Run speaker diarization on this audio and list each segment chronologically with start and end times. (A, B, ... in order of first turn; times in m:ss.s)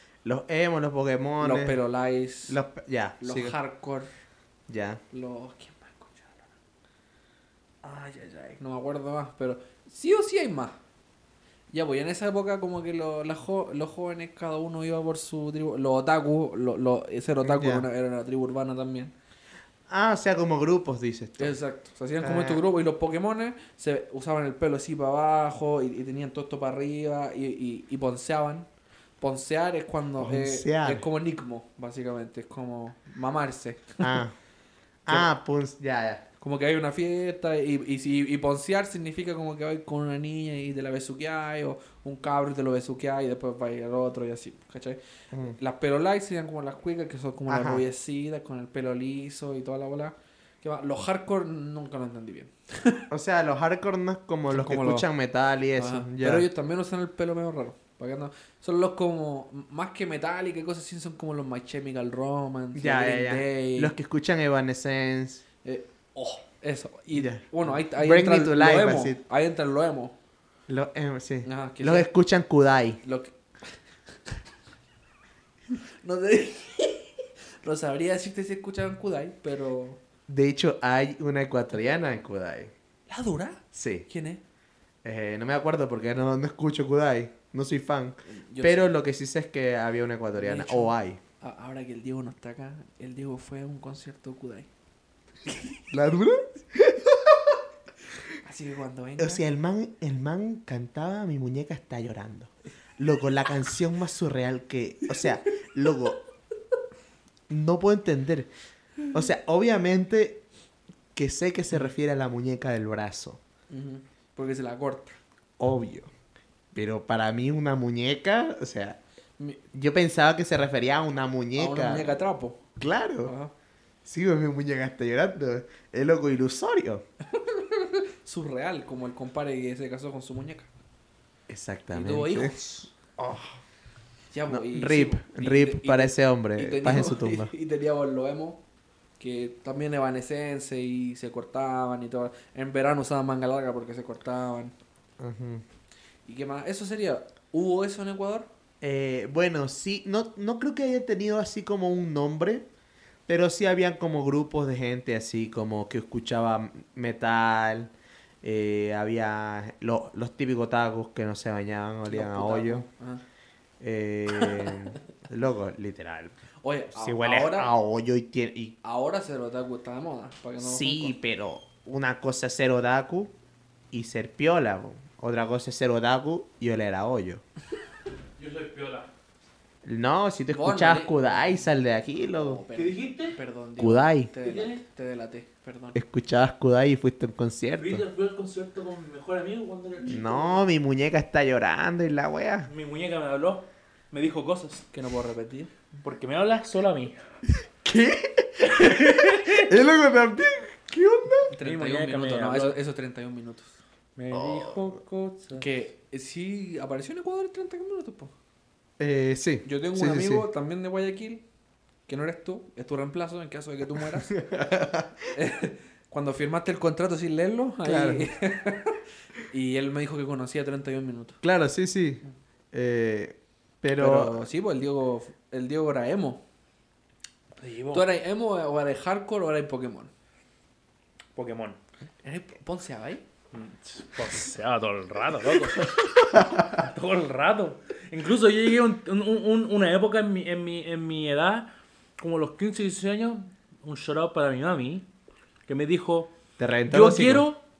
0:00.2-0:01.8 A
0:01.4-0:02.6 B
0:02.5-0:03.5 A
0:03.2-0:04.1 B
0:04.7-0:05.0 A
0:05.1-0:06.5 B
0:07.9-0:10.8 B
0:11.7-0:19.1 B
0:17.4-0:17.8 A
0:19.9-0:21.6 A
0:21.4-0:28.7 B
0:22.2-0:22.6 A
0:29.2-0:34.2 B
0:30.2-0:31.0 A
0:34.0-0:34.3 A
0:35.0-0:36.2 A
0:36.4-0:53.0 B
0:47.5-0:47.8 A
0:53.1-0:56.5 A
0:54.5-0:55.1 B
0:55.8-1:04.0 B
1:02.7-1:05.4 A
1:05.6-1:10.1 B
1:07.1-1:09.2 A
1:10.7-1:13.0 A
1:11.4-1:12.1 B
1:13.0-1:13.7 B
1:16.0-1:20.0 B
1:20.3-1:22.7 A
1:23.1-1:24.4 B
1:23.7-1:24.1 A
1:25.0-1:31.2 A
1:28.2-1:28.9 B
1:30.3-1:34.7 B
1:35.5-1:35.8 B
1:35.9-1:37.6 A
1:38.4-1:39.4 B
1:39.2-1:46.2 A
1:47.5-1:48.5 A
1:49.1-1:50.4 A
1:51.1-1:53.4 A
1:53.7-1:55.2 B
1:55.6-1:56.1 A
1:56.7-1:59.0 A
1:59.7-2:02.1 A
2:01.6-2:02.6 B
2:02.8-2:03.3 A
2:03.2-2:03.5 B
2:04.0-2:07.0 A
2:07.3-2:10.7 B
2:11.5-2:13.6 A
2:11.9-2:12.8 B
2:14.3-2:18.6 B
2:14.5-2:17.5 A
2:19.2-2:24.7 B
2:25.2-2:25.6 A
2:26.2-2:28.5 B
2:28.8-2:32.6 A
2:33.3-2:42.9 A
2:42.1-2:43.2 B
2:43.8-2:46.3 A
2:44.3-2:44.8 B
2:46.6-2:47.7 B
2:46.9-2:48.8 A
2:48.8-2:51.1 B
2:50.6-2:53.3 A
2:53.9-2:57.4 A
2:58.4-2:59.1 C
2:59.8-3:02.6 A
3:00.5-3:01.4 B
3:02.3-3:06.0 B
3:02.7-3:03.4 C
3:03.8-3:04.3 A
3:04.4-3:04.8 C
3:05.9-3:08.0 A
3:07.8-3:10.6 C
3:10.1-3:12.7 A
3:12.7-3:14.9 C
3:14.9-3:15.7 B
3:16.0-3:17.2 C
3:17.8-3:21.5 A
3:18.6-3:19.7 C
3:21.5-3:23.8 B
3:21.6-3:22.8 C
3:24.2-3:25.7 C
3:24.3-3:25.0 A
3:25.6-3:28.3 B
3:29.0-3:30.4 A
3:29.6-3:31.4 B
3:32.1-3:34.4 B
3:34.2-3:35.3 A
3:35.3-3:39.0 B
3:37.8-3:38.3 A
3:39.5-3:41.4 B
3:41.4-3:44.4 A
3:44.0-3:46.4 B
3:47.6-3:48.1 C
3:47.9-3:50.1 B
3:51.4-3:51.8 C
3:52.2-3:53.2 B
3:53.5-3:56.2 C
3:56.3-3:56.6 A
3:56.7-4:05.1 C
4:05.7-4:06.3 C
4:06.6-4:07.4 A
4:06.9-4:07.6 C